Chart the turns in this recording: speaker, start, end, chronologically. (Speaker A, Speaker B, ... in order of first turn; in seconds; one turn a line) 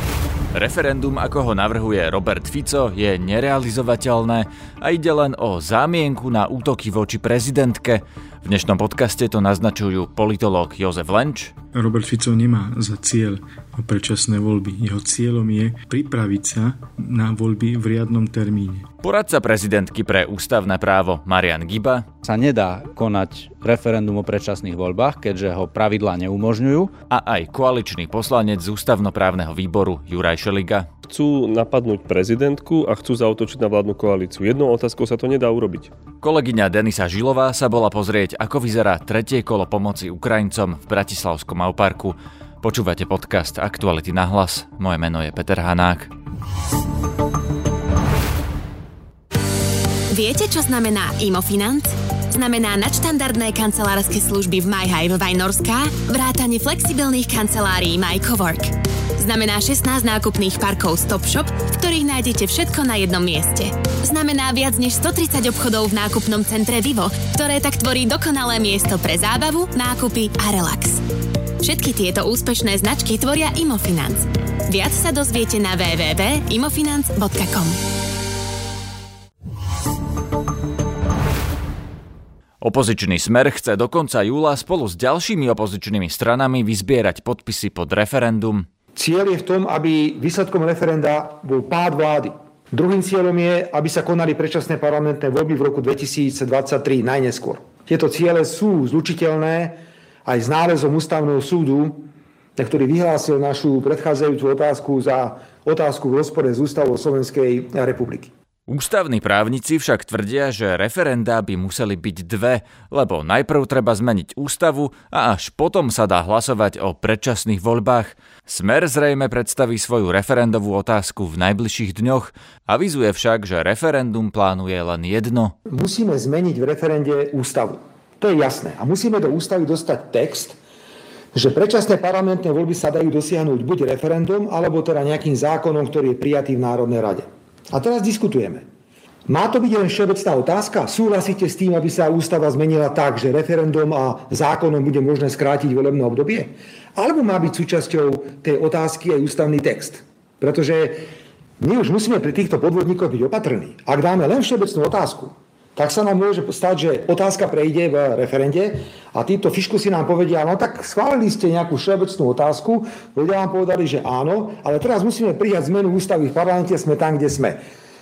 Speaker A: 0.5-11.5
Speaker B: 11.7-18.9
Speaker A: 19.0-22.1
Speaker C: 22.2-26.9
Speaker A: 27.1-30.9
Speaker D: 31.1-35.9
Speaker A: 36.2-46.1
Speaker E: 50.1-71.0
Speaker E: 71.6-77.8
Speaker A: 82.6-88.7
Speaker F: 89.0-108.3
Speaker A: 108.7-125.5
Speaker F: 125.7-130.6
Speaker F: 131.3-138.6
Speaker F: 139.3-151.0
Speaker F: 151.6-167.6